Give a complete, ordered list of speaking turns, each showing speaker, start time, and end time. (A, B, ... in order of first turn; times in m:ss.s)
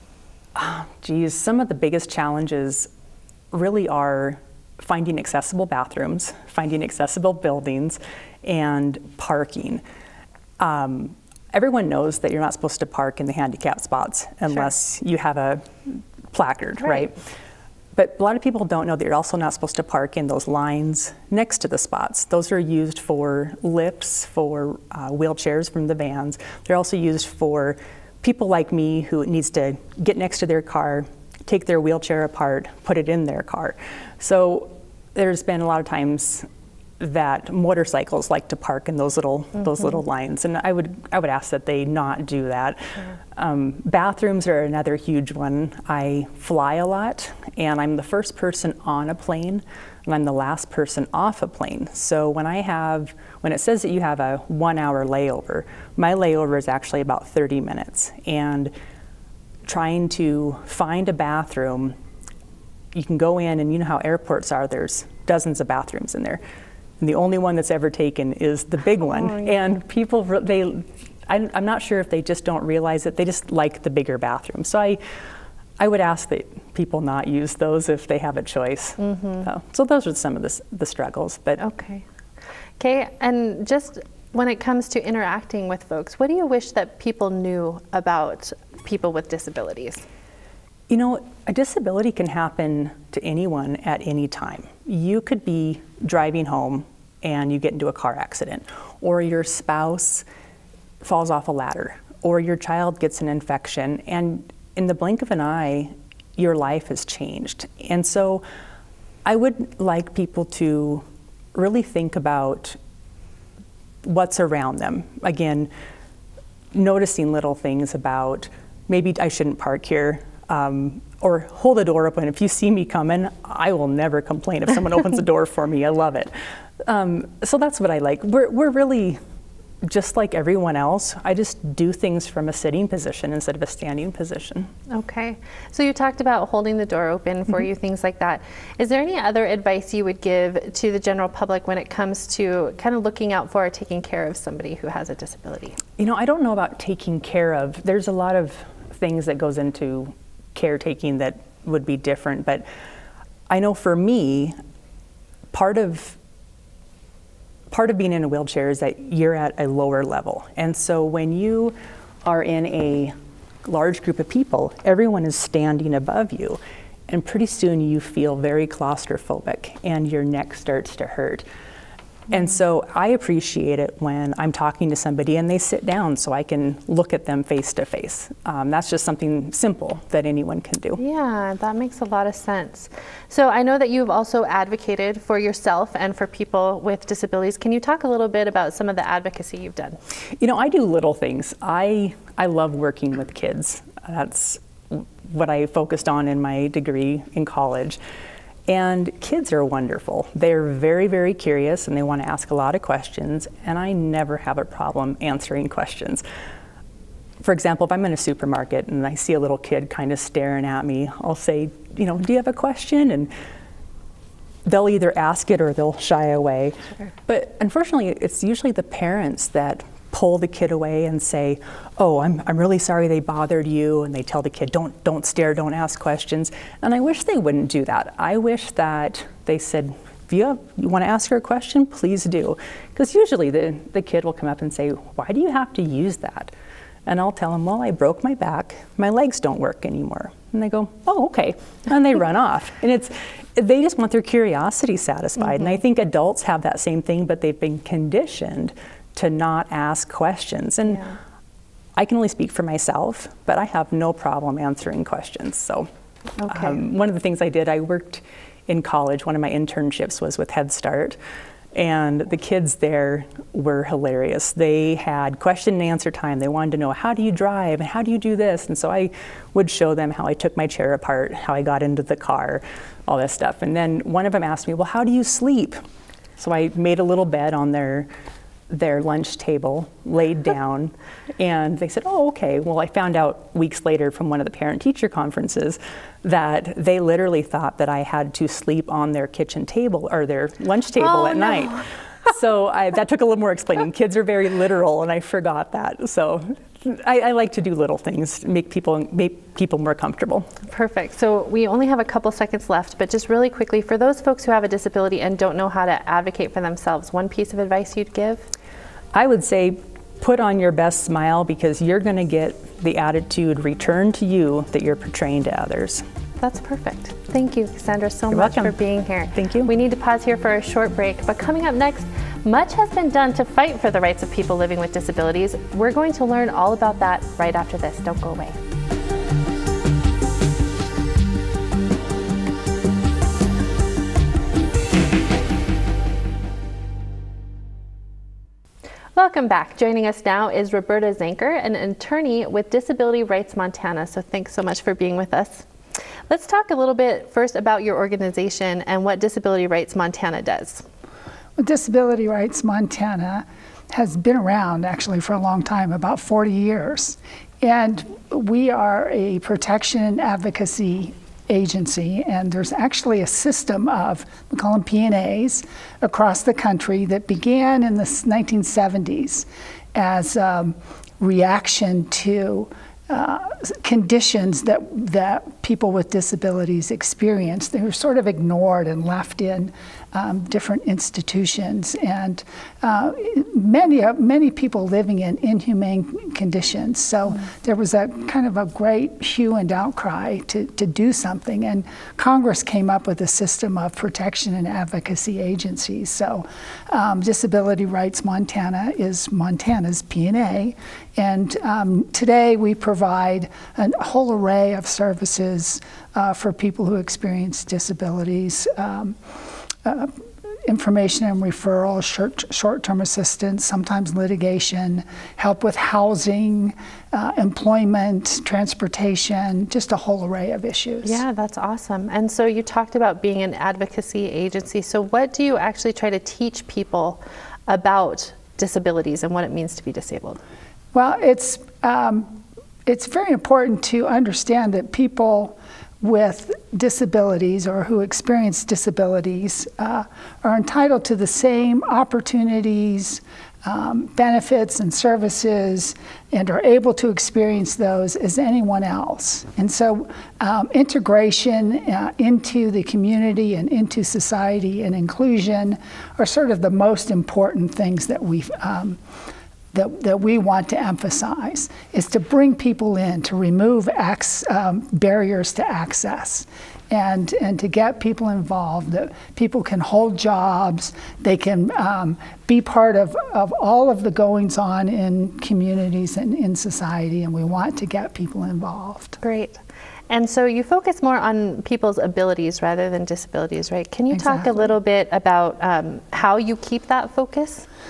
0:00.6-0:02.9 A
0:03.5-0:09.8 A
0:10.6-0:17.2 A
0:17.9-0:36.5 A
0:37.0-0:58.7 A
0:59.6-1:01.9 A
1:02.9-1:06.4 A
1:07.0-1:15.0 A
1:09.1-1:09.5 B
1:15.8-1:21.6 A
1:19.0-1:19.5 B
1:21.6-1:22.0 B
1:22.8-1:30.0 B
1:30.9-1:40.2 A
1:41.0-1:48.4 A
1:49.2-1:52.8 A
1:54.0-1:55.7 A
1:56.7-2:06.3 A
2:06.8-2:09.2 A
2:09.8-2:14.7 A
2:14.9-2:25.8 B
2:26.0-2:32.6 A
2:33.5-2:34.6 A
2:35.5-2:36.2 A
2:37.7-2:51.4 A
2:52.3-3:01.0 A
3:01.0-3:10.0 B
3:10.4-3:18.0 A
3:18.7-3:26.2 A
3:27.4-3:33.3 A
3:34.6-3:56.5 A
3:57.0-4:11.0 A
4:12.0-4:15.9 A
4:16.4-4:16.8 B
4:16.5-4:21.2 A
4:21.7-4:35.8 A
4:36.4-4:38.1 A
4:38.7-5:00.5 A
4:51.2-4:51.8 B
5:00.7-5:08.5 B
5:09.1-5:16.0 A
5:16.4-5:28.6 B
5:18.3-5:18.8 A
5:19.3-5:19.7 A
5:39.1-5:45.7 B
5:46.3-5:50.9 B
5:51.6-6:49.2 C
6:49.8-6:50.1 C
6:50.7-7:01.2 C
7:01.0-7:10.4 B
7:10.9-7:39.0 C
7:39.7-7:59.2 C
7:59.2-8:07.7 B
8:04.1-8:04.7 C